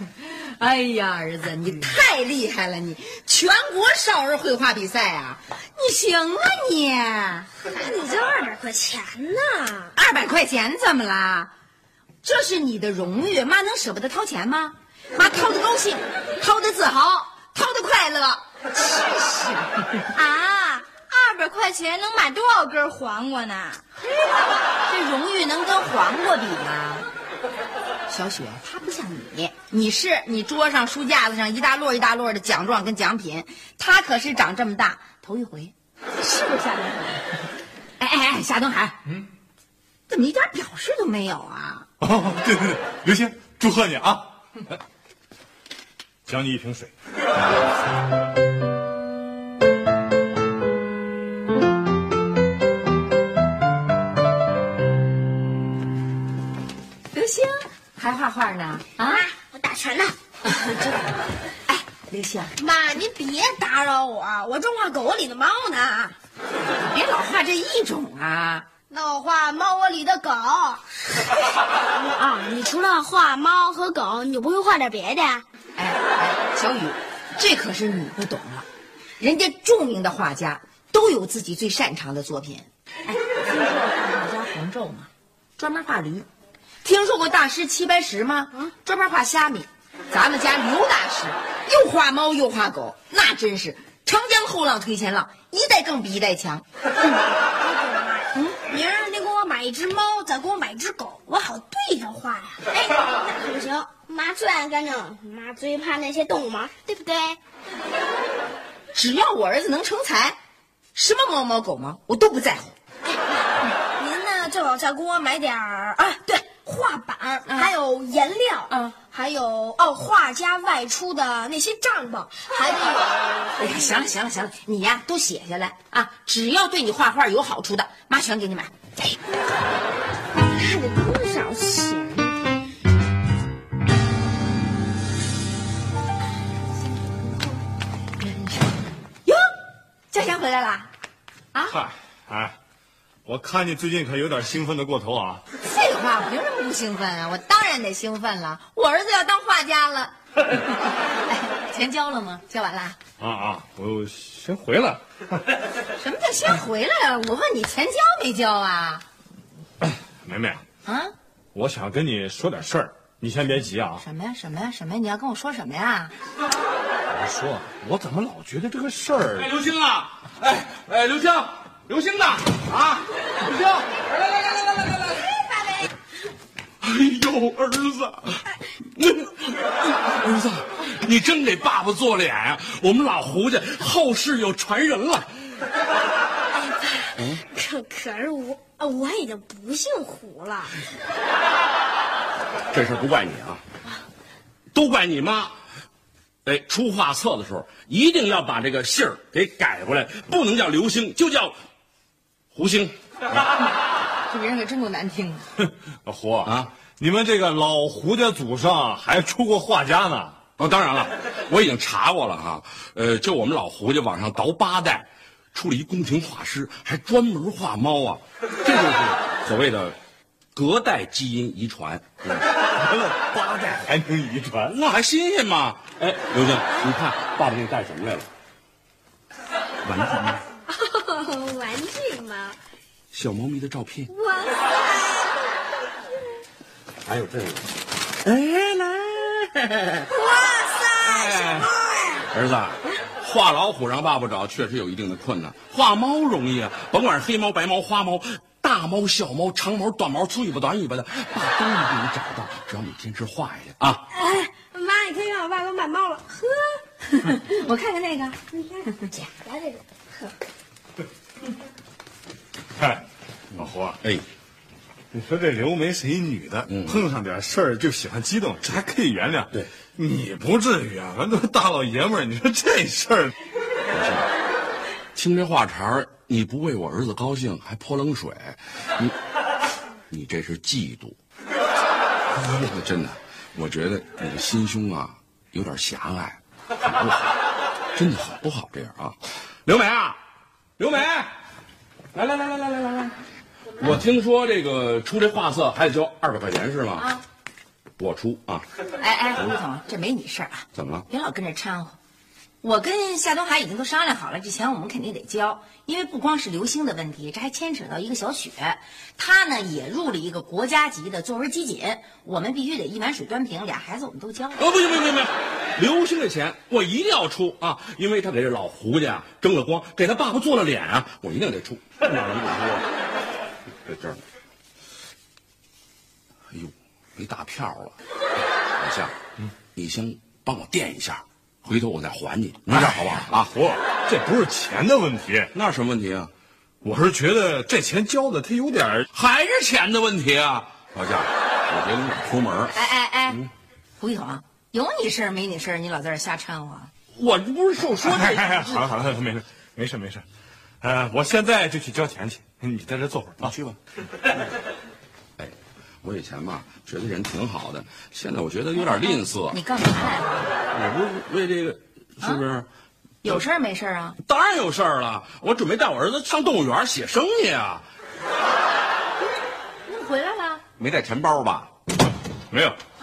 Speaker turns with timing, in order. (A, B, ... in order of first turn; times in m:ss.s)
0:00.2-0:07.5 A
0:07.7-0:09.9 B
0:09.9-0:11.5 A
0:12.2-0:20.0 A
0:20.1-0:23.8 C
0:24.8-0:27.1 A
0:28.1-0:37.3 A
0:38.0-0:39.0 A
0:40.1-0:41.9 A
0:42.0-0:44.4 D
0:46.2-0:46.9 D
0:57.1-0:59.3 A
0:59.0-1:00.2 B
1:00.4-1:02.6 A
1:02.6-1:06.1 B
1:06.7-1:08.7 A
1:08.9-1:11.0 B
1:11.9-1:15.4 B
1:15.8-1:18.7 A
1:19.2-1:26.3 A
1:26.8-1:36.6 A
1:37.6-1:47.4 B
1:48.9-1:50.4 A
1:50.9-1:52.7 A
1:54.0-2:03.7 B
1:57.5-1:57.7 A
1:58.7-1:59.0 A
2:03.6-2:09.0 A
2:10.5-2:12.5 B
2:20.1-2:20.9 A
2:21.7-2:22.6 D
2:23.2-2:25.4 D
2:25.6-2:30.8 A
2:31.3-2:33.0 A
2:33.2-2:35.0 D
2:36.0-2:39.0 A
2:39.8-2:40.6 D
2:40.8-2:41.1 A
2:41.5-2:44.0 D
2:44.0-2:46.1 A
2:47.1-2:49.5 D
2:49.4-2:55.4 E
2:56.8-3:05.3 E
3:07.5-3:10.7 B
3:12.7-3:13.6 E
3:14.7-3:15.6 E
3:16.4-3:21.6 E
3:22.5-3:23.0 E
3:24.3-3:25.4 A
3:25.6-3:30.4 D
3:26.4-3:26.7 E
3:30.6-3:40.0 E
3:40.5-3:42.4 E
3:42.8-3:44.7 D
3:44.7-3:48.3 E
3:49.8-3:50.4 E
3:50.7-3:52.6 B
3:53.1-3:54.1 E
3:54.1-3:55.3 B
3:57.0-3:57.6 E
3:58.2-4:00.0 E
4:00.1-4:02.2 B
4:01.0-4:01.7 E
4:02.3-4:14.0 E
4:14.1-4:16.7 B
4:17.1-4:18.4 A
4:18.6-4:20.3 B
4:22.8-4:23.0 D
4:23.6-4:24.0 D
4:23.6-4:24.2 E
4:25.1-4:33.3 D
4:26.7-4:27.0 E
4:33.9-4:34.3 E
4:35.1-4:39.2 E
4:40.1-4:41.2 E
4:42.3-4:47.4 E
4:47.9-4:50.2 E
4:50.8-4:51.3 E
4:52.1-4:53.1 E
4:53.8-4:57.1 E
4:58.0-4:58.6 E
4:59.0-5:02.0 A
5:00.7-5:01.0 E
5:02.6-5:14.6 A
5:14.6-5:22.9 E
5:23.8-5:24.2 E
5:26.5-5:27.9 E
5:28.8-5:29.1 E
5:29.7-5:33.5 E
5:32.7-5:35.5 D
5:35.5-5:36.3 E
5:36.8-5:39.0 D
5:39.1-5:42.7 E
5:42.7-5:43.4 A
5:44.0-5:46.9 A
5:47.1-5:48.8 E
5:48.0-5:50.2 D
5:50.8-5:53.5 D
5:53.4-5:53.8 E
5:55.4-5:59.6 E
5:58.8-6:00.5 A
6:00.7-6:02.7 E
6:03.2-6:04.2 A
6:04.2-6:07.9 E
6:09.8-6:10.6 A
6:10.8-6:11.7 E
6:12.5-6:12.8 D